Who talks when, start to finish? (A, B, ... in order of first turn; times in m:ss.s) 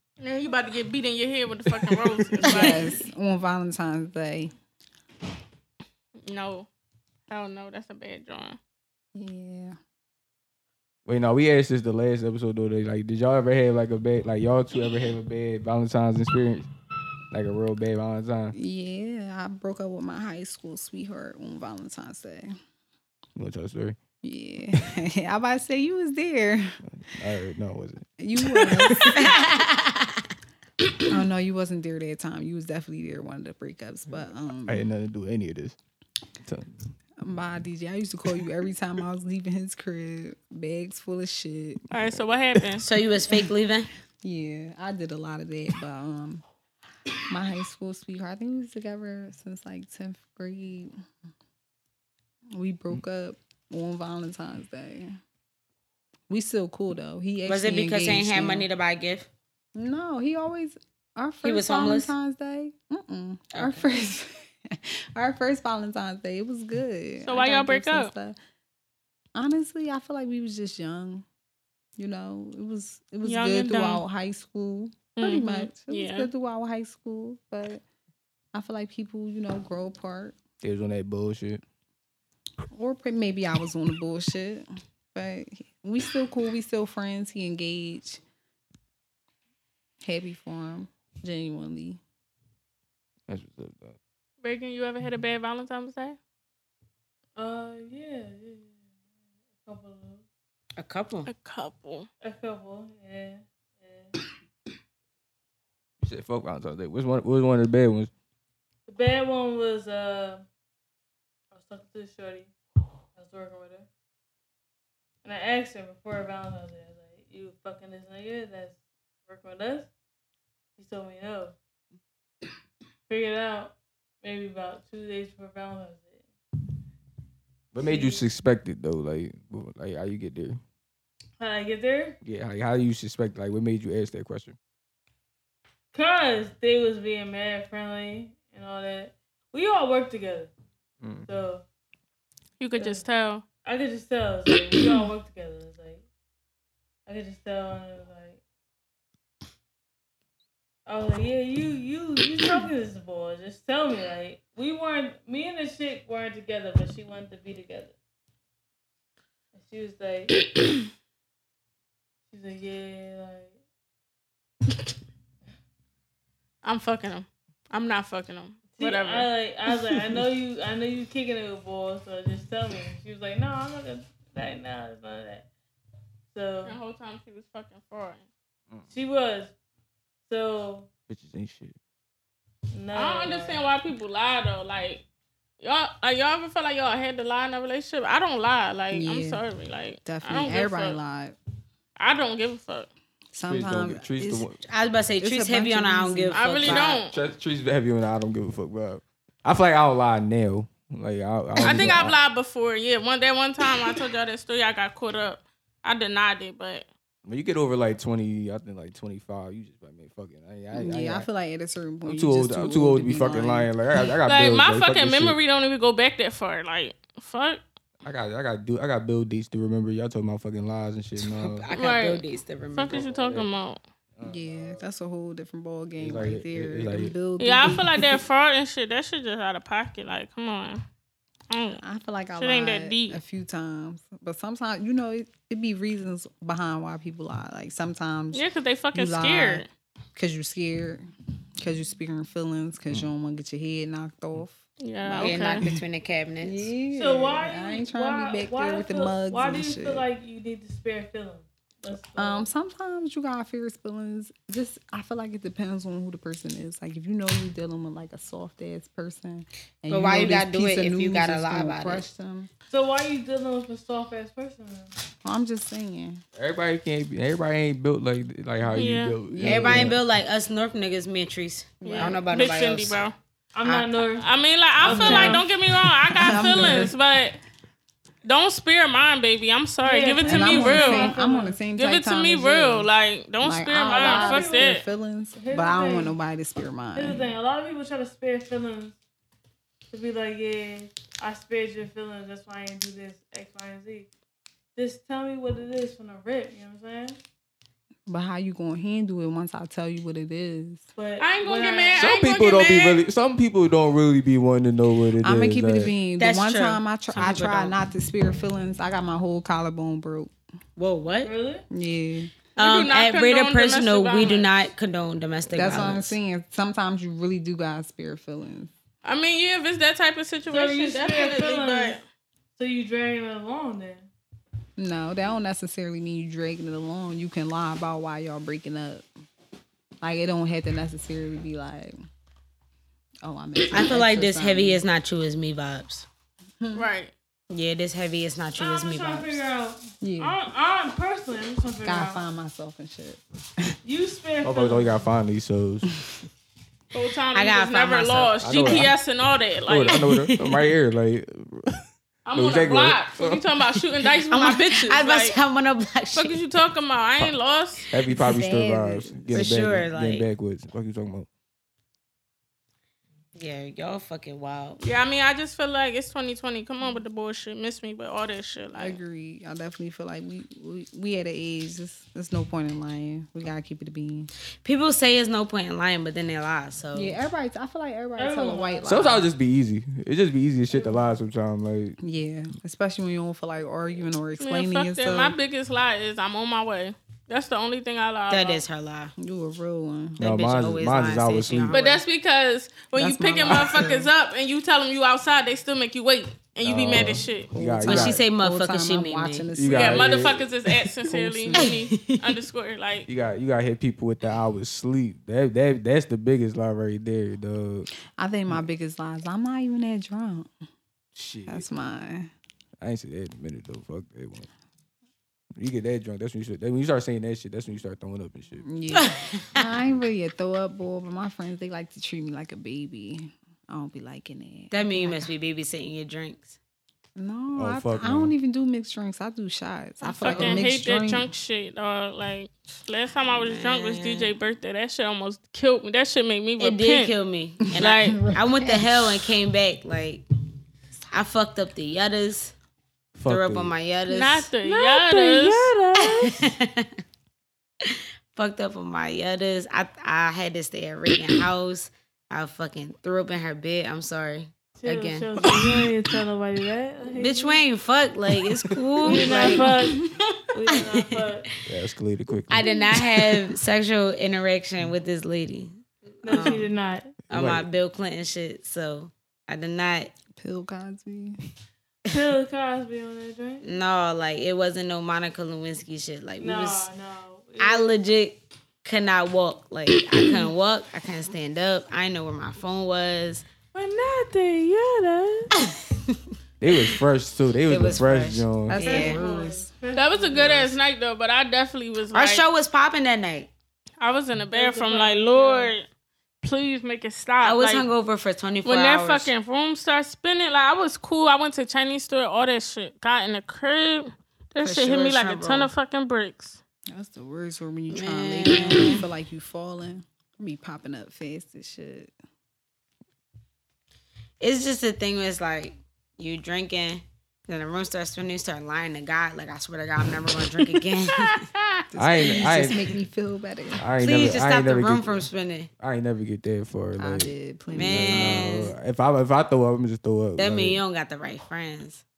0:00.2-0:02.8 A
0:01.7-0:02.7 B
0:02.4-0:04.5 C
0:06.3-0:06.7 A
0:07.3-0:08.6 A
0:09.2-0:09.8 C
0:11.1-0:16.7 B
0:17.3-0:18.6 B
0:18.5-0:22.6 C
0:23.4-0:24.0 B
0:24.2-0:26.8 C
0:26.9-0:28.1 B
0:28.2-0:29.5 C
0:29.2-0:30.2 D
0:31.1-0:34.9 C
0:34.7-0:35.8 B
0:36.4-0:36.8 B
0:37.2-0:41.8 C
0:41.9-0:42.8 A
0:42.8-0:43.9 D
0:44.2-0:46.4 C
0:47.3-0:50.9 C
0:52.5-0:55.2 C
0:56.3-0:58.7 C
0:57.5-0:59.3 D
0:59.8-1:08.4 C
1:01.4-1:02.1 D
1:03.5-1:03.8 D
1:07.2-1:08.1 A
1:09.4-1:11.3 C
1:12.0-1:17.8 C
1:13.2-1:14.0 A
1:15.2-1:16.3 A
1:18.5-1:20.4 C
1:20.6-1:21.6 B
1:22.7-1:28.2 C
1:30.0-1:32.0 C
1:33.3-1:34.0 B
1:34.4-1:36.2 A
1:37.4-1:38.8 E
1:39.6-1:40.2 E
1:40.8-1:41.3 D
1:41.3-1:42.1 A
1:42.2-1:44.1 E
1:46.0-1:48.1 B
1:48.9-1:50.5 E
1:51.5-1:52.5 E
1:53.2-1:53.9 E
1:55.2-1:59.9 E
2:00.8-2:01.6 E
2:03.1-2:06.2 E
2:07.7-2:10.6 B
2:07.8-2:08.2 E
2:11.4-2:12.2 E
2:12.2-2:14.6 B
2:15.9-2:20.5 E
2:21.0-2:21.3 B
2:21.3-2:21.6 E
2:22.6-2:23.4 A
2:22.8-2:23.0 E
2:23.6-2:26.0 E
2:27.1-2:28.4 E
2:30.9-2:38.0 E
2:39.6-2:40.4 E
2:42.3-2:43.6 E
2:46.6-2:49.3 A
2:48.8-2:55.5 E
2:56.3-2:56.8 E
2:56.6-2:58.2 A
2:58.9-2:59.5 E
3:00.3-3:00.9 E
3:01.1-3:01.8 B
3:02.7-3:03.7 E
3:03.0-3:05.0 A
3:05.6-3:11.0 A
3:08.9-3:09.4 C
3:10.0-3:11.4 C
3:12.0-3:12.9 A
3:13.3-3:14.5 C
3:13.5-3:14.6 B
3:14.6-3:17.0 D
3:15.2-3:16.4 C
3:16.3-3:17.2 A
3:17.1-3:22.2 B
3:21.6-3:26.9 A
3:27.3-3:31.3 B
3:30.7-3:33.7 C
3:32.1-3:35.4 B
3:34.3-3:37.6 A
3:38.0-3:41.7 B
3:41.2-3:43.1 D
3:41.8-3:43.8 A
3:42.9-3:43.5 B
3:44.2-3:44.8 B
3:44.2-3:48.1 C
3:46.0-3:47.2 B
3:47.4-3:50.8 A
3:51.5-3:51.8 A
3:51.8-3:59.6 C
3:52.4-3:53.2 A
3:58.3-3:59.7 A
4:00.2-4:01.1 C
4:01.6-4:05.5 C
4:04.8-4:05.6 A
4:05.2-4:06.7 D
4:06.4-4:10.1 C
4:06.9-4:12.5 E
4:12.2-4:22.5 C
4:19.9-4:22.0 D
4:22.7-4:24.9 E
4:25.2-4:26.2 C
4:26.4-4:30.0 B
4:28.7-4:29.2 A
4:29.3-4:30.0 C
4:29.4-4:33.0 D
4:31.8-4:33.2 A
4:33.6-4:35.5 E
4:33.6-4:33.9 D
4:34.2-4:37.4 A
4:34.8-4:35.5 C
4:36.1-4:37.0 C
4:38.2-4:41.2 A
4:39.8-4:41.6 E
4:40.3-4:42.9 C
4:41.8-4:44.8 A
4:43.4-4:47.3 C
4:43.8-4:44.8 E
4:45.4-4:46.1 E
4:47.0-4:49.0 E
4:49.9-4:54.1 E
4:54.8-4:57.2 E
4:58.1-5:00.9 C
5:01.0-5:02.0 E
5:01.2-5:03.0 A
5:02.0-5:05.9 B
5:05.2-5:10.3 C
5:06.2-5:07.8 D
5:10.8-5:11.3 D
5:11.2-5:11.6 E
5:11.7-5:12.3 C
5:12.6-5:16.2 D
5:12.6-5:14.5 A
5:15.5-5:18.7 C
5:15.6-5:16.0 B
5:19.0-5:22.0 A
5:20.5-5:22.0 E
5:22.6-5:24.1 E
5:24.8-5:29.1 C
5:30.0-5:32.0 C
5:33.2-5:34.8 C
5:33.7-5:36.1 D
5:36.6-5:36.8 C
5:36.7-5:37.1 A
5:37.5-5:39.4 D
5:38.6-5:42.2 E
5:40.0-5:40.4 C
5:41.8-5:43.8 C
5:43.8-5:45.1 E
5:44.4-5:45.9 B
5:46.9-5:50.0 A
5:47.3-5:48.3 D
5:48.4-5:48.9 B
5:49.7-5:51.8 B
5:49.9-5:50.6 D
5:52.3-5:55.4 A
5:52.4-5:53.4 B
5:54.3-5:56.4 D
5:56.2-5:57.9 A
5:57.9-6:01.3 B
5:58.0-5:59.5 C
5:59.3-6:00.3 D
6:03.4-6:04.8 D
6:04.8-6:09.0 A
6:08.8-6:14.3 C
6:14.6-6:17.2 D
6:17.0-6:19.3 C
6:18.2-6:18.9 E
6:18.8-6:22.0 B
6:20.7-6:21.2 E
6:22.0-6:25.4 C
6:24.4-6:28.6 A
6:28.3-6:29.1 D
6:29.2-6:30.2 C
6:30.2-6:31.8 B
6:30.2-6:32.0 D
6:31.7-6:37.5 A
6:33.0-6:34.1 C
6:36.6-6:38.2 B
6:37.5-6:40.4 C
6:37.8-6:39.5 D
6:39.5-6:40.5 B
6:39.7-6:43.1 A
6:41.1-6:41.8 C
6:41.6-6:42.2 D
6:43.1-6:47.9 B
6:48.1-6:50.5 C
6:51.2-6:51.7 B
6:51.5-6:52.3 C
6:52.8-6:54.5 B
6:55.6-6:58.6 B
6:58.6-7:05.3 C
6:58.9-6:59.6 D
7:04.7-7:06.6 D
7:07.2-7:11.3 C
7:07.6-7:08.3 B
7:10.2-7:17.1 A
7:10.2-7:10.6 D
7:13.3-7:14.3 D
7:16.6-7:20.2 D
7:17.8-7:18.2 A
7:17.8-7:19.3 C
7:21.1-7:22.5 D
7:23.2-7:23.7 B
7:23.2-7:24.5 D
7:24.1-7:25.7 A
7:24.6-7:26.5 E
7:26.0-7:26.9 D
7:27.8-7:35.7 D
7:34.8-7:37.6 E
7:37.2-7:39.8 D
7:39.0-7:41.5 E
7:40.7-7:41.5 D
7:41.6-7:42.6 B
7:42.5-7:46.7 D
7:46.2-7:47.2 E
7:47.3-7:47.7 B
7:47.3-7:50.1 D
7:50.4-7:51.4 C
7:52.1-7:53.6 E
7:53.6-7:56.9 D
7:56.4-7:58.0 E
7:57.6-8:03.4 D
8:03.7-8:05.5 E
8:05.7-8:06.2 D
8:06.6-8:09.1 B
8:07.7-8:09.2 D
8:08.7-8:09.7 C
8:08.8-8:10.7 E
8:10.0-8:12.4 A
8:12.1-8:13.5 D
8:14.0-8:15.9 A
8:14.5-8:15.7 E
8:16.4-8:17.8 A
8:17.4-8:19.3 D
8:18.6-8:26.6 A
8:24.6-8:25.7 D
8:26.9-8:32.1 C
8:27.9-8:29.0 D
8:34.4-8:41.5 D
8:41.2-8:41.6 A
8:41.9-8:43.8 C
8:42.0-8:43.0 B
8:43.8-8:45.3 B
8:44.0-8:45.7 D
8:45.8-8:50.8 B
8:47.0-8:48.6 C
8:47.7-8:48.7 D
8:50.4-8:52.0 D